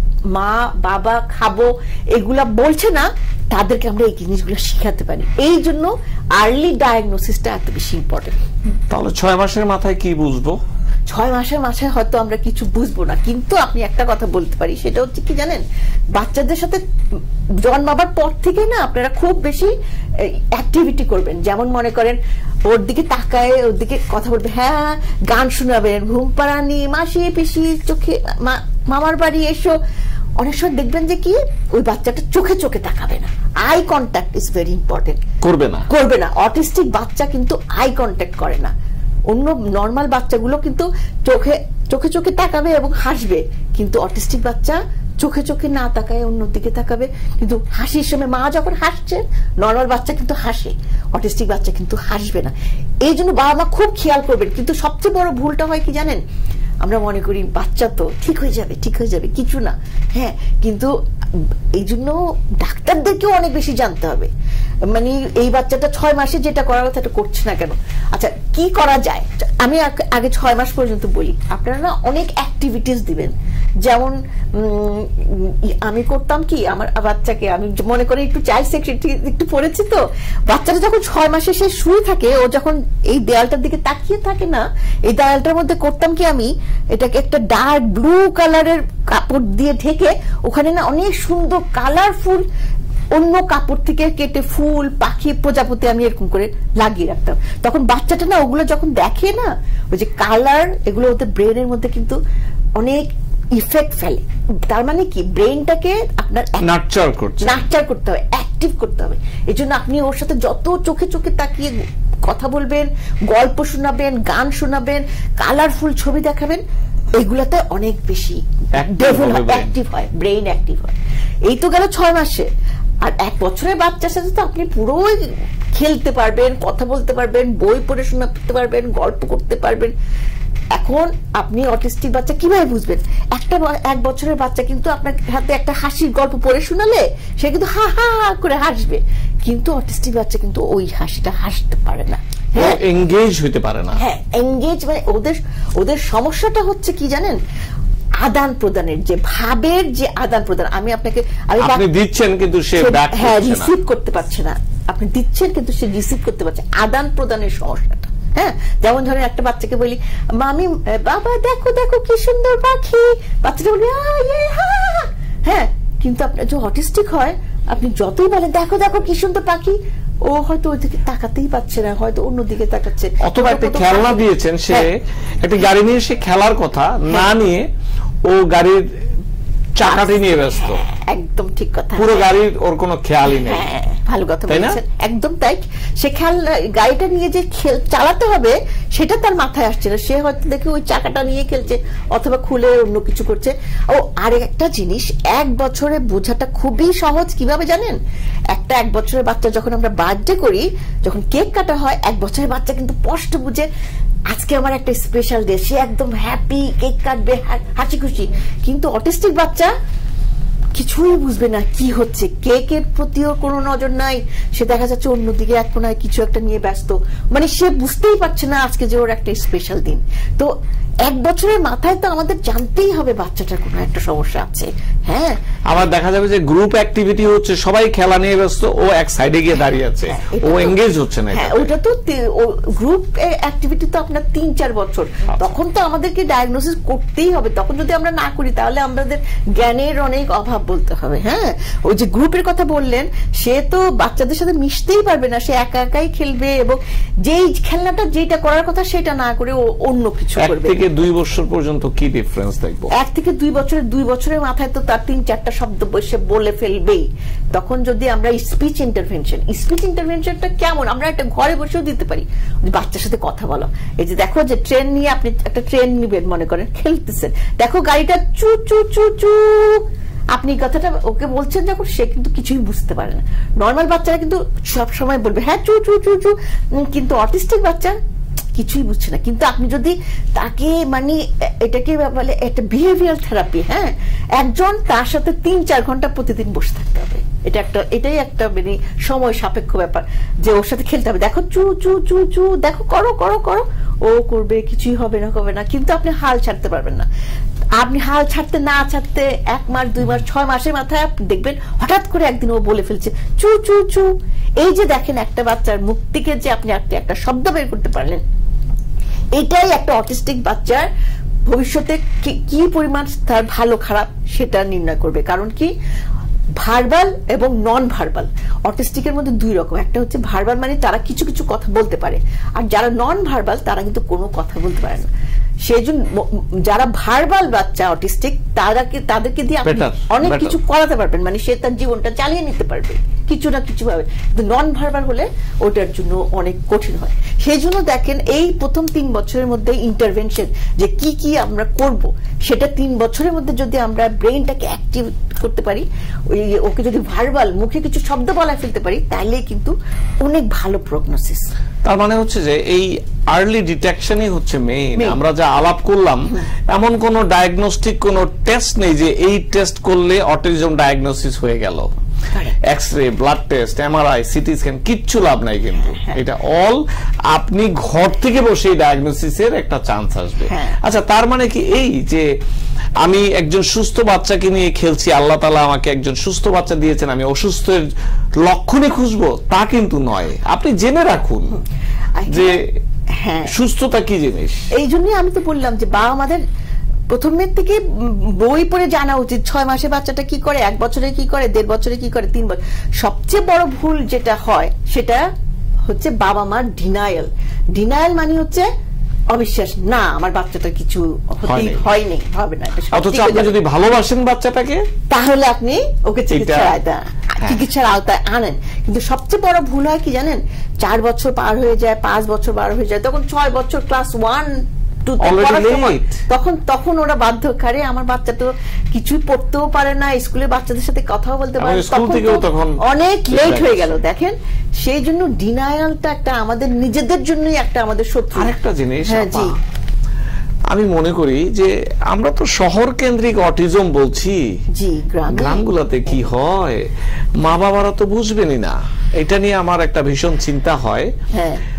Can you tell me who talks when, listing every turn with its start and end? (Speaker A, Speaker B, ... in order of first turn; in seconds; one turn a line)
Speaker A: 0.3-8.3
Speaker B: 8.9-10.6
Speaker A: 11.1-15.6
Speaker A: 16.1-16.8
Speaker A: 17.6-19.7
Speaker A: 20.2-29.7
Speaker A: 30.4-35.2
Speaker B: 35.4-35.9
Speaker A: 35.9-38.7
Speaker A: 39.3-56.2
Speaker A: 56.8-64.3
Speaker A: 64.9-73.3
Speaker A: 73.8-92.4
Speaker A: 93.1-102.2
Speaker A: 102.8-106.7
Speaker B: 106.6-107.6
Speaker A: 107.4-111.7
Speaker A: 112.2-116.6
Speaker A: 117.2-122.5
Speaker B: 118.8-119.7
Speaker A: 123.0-129.9
Speaker A: 130.7-142.8
Speaker B: 142.5-144.0
Speaker A: 144.0-147.4
Speaker A: 148.2-151.8
Speaker B: 151.6-153.7
Speaker A: 152.8-174.9
Speaker B: 173.2-177.7
Speaker B: 178.2-178.8
Speaker B: 179.8-180.8
Speaker A: 179.8-182.3
Speaker B: 181.9-183.7
Speaker A: 183.3-198.0
Speaker B: 184.5-184.8
Speaker A: 198.5-203.7
Speaker A: 204.3-209.7
Speaker A: 210.7-220.5
Speaker A: 221.0-225.4
Speaker B: 225.7-231.7
Speaker A: 230.1-250.8
Speaker B: 235.3-235.5
Speaker B: 250.4-252.9
Speaker A: 252.9-278.0
Speaker A: 278.6-297.1
Speaker A: 297.8-304.1
Speaker A: 304.6-308.2
Speaker A: 309.4-310.9
Speaker A: 311.5-315.7
Speaker A: 316.6-325.1
Speaker A: 325.6-351.5
Speaker B: 329.6-330.6
Speaker B: 351.8-361.9
Speaker B: 362.7-372.3
Speaker A: 370.5-370.8
Speaker B: 373.0-377.9
Speaker B: 378.4-381.6
Speaker A: 382.1-382.6
Speaker B: 382.3-382.8
Speaker A: 383.2-383.5
Speaker B: 383.5-384.7
Speaker A: 384.7-386.4
Speaker A: 387.1-395.2
Speaker A: 395.9-398.7
Speaker A: 399.3-403.6
Speaker B: 401.5-401.9
Speaker B: 402.9-404.8
Speaker A: 405.1-414.5
Speaker B: 406.3-406.7
Speaker A: 415.1-428.5
Speaker B: 415.2-416.2
Speaker B: 421.6-424.0
Speaker B: 428.3-429.5
Speaker A: 429.1-429.5
Speaker B: 430.7-434.4
Speaker A: 434.7-436.1
Speaker B: 435.3-436.8
Speaker B: 437.4-441.1
Speaker A: 441.3-441.6